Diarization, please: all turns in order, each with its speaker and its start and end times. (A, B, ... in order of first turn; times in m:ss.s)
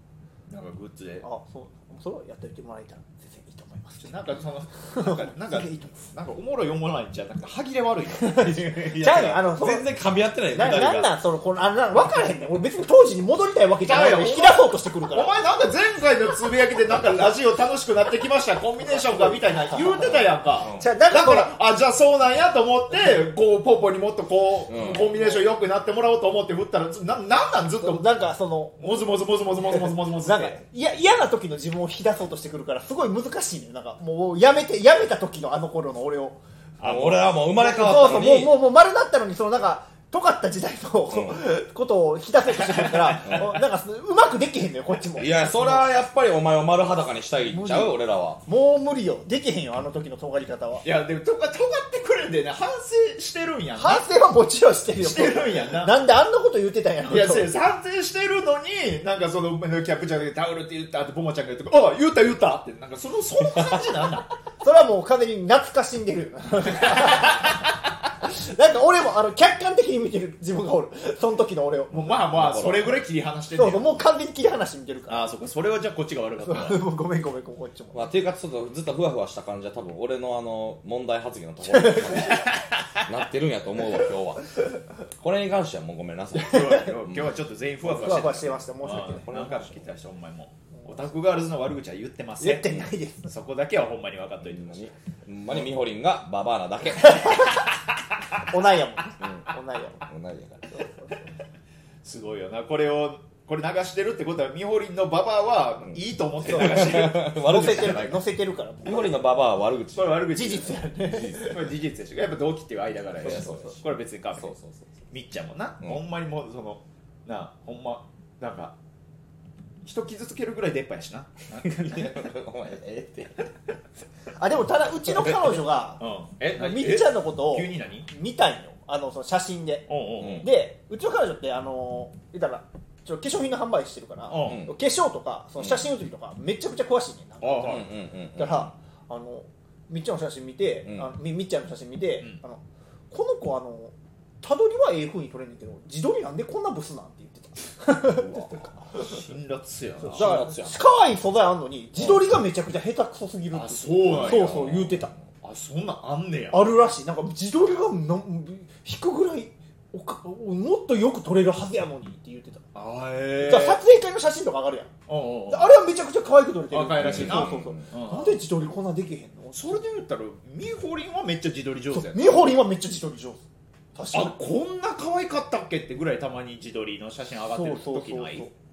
0:00.5-0:01.3 A
0:01.2-0:04.1 B
0:04.0-0:08.6 A
0:05.0-0:05.9 B
0:08.2-0:11.1 C
0:08.3-0:09.9 B
0:10.5-0:15.4 B
0:13.8-0:28.1 A
0:18.8-0:21.5 B
0:20.5-0:20.9 C
0:24.7-0:25.1 C
0:25.1-0:25.5 B
0:27.8-0:36.4 B
0:28.8-0:30.6 A
0:36.8-0:37.3 A
0:36.8-0:38.6 C
0:37.6-0:45.9 B
0:41.1-0:41.4 C
0:42.7-0:43.4 A
0:45.1-0:48.4 C
0:47.5-0:50.8 B
0:50.8-0:54.1 A
0:53.8-0:57.5 B
0:55.0-0:56.0 A
0:57.1-1:04.3 A
1:04.6-1:07.6 B
1:06.8-1:07.3 A
1:08.2-1:12.1 B
1:11.9-1:14.0 A
1:12.0-1:13.0 C
1:13.6-1:15.3 B
1:15.1-1:16.8 A
1:16.4-1:18.1 B
1:17.9-1:29.9 C
1:21.6-1:22.5 B
1:22.4-1:23.0 A
1:26.4-1:26.9 B
1:26.4-1:32.7 A
1:27.8-1:29.3 B
1:32.4-1:33.3 B
1:32.7-1:32.9 C
1:33.3-1:34.8 A
1:34.4-1:37.6 C
1:37.0-1:37.6 B
1:38.5-1:40.0 B
1:39.2-1:40.8 C
1:40.7-1:41.3 B
1:42.0-1:47.3 A
1:46.5-1:49.2 B
1:46.5-1:48.2 C
1:48.8-1:50.3 C
1:49.9-1:54.5 A
1:50.3-1:51.6 B
1:51.1-1:51.6 C
1:53.2-1:54.9 C
1:53.2-1:53.7 B
1:55.1-1:58.8 A
1:59.8-2:02.2 A
2:01.6-2:03.5 C
2:04.3-2:29.2 B
2:05.0-2:08.1 A
2:09.9-2:10.5 A
2:10.2-2:10.5 C
2:14.3-2:14.7 A
2:14.4-2:14.7 C
2:15.6-2:15.9 C
2:17.4-2:17.9 A
2:17.6-2:18.7 C
2:20.8-2:21.2 C
2:28.9-2:30.4 A
2:30.0-2:30.8 C
2:30.0-2:35.1 B
2:32.0-2:32.2 A
2:33.5-2:34.6 A
2:34.1-2:35.2 C
2:35.4-2:36.6 A
2:36.5-2:42.7 B
2:42.7-2:43.8 A
2:43.4-2:44.9 B
2:45.1-2:45.8 A
2:45.5-2:49.6 B
2:46.7-2:48.4 A
2:47.0-2:47.9 C
2:49.5-2:52.6 A
2:51.9-2:53.4 B
2:54.0-2:54.4 B
2:54.1-2:58.5 A
2:57.5-2:58.5 B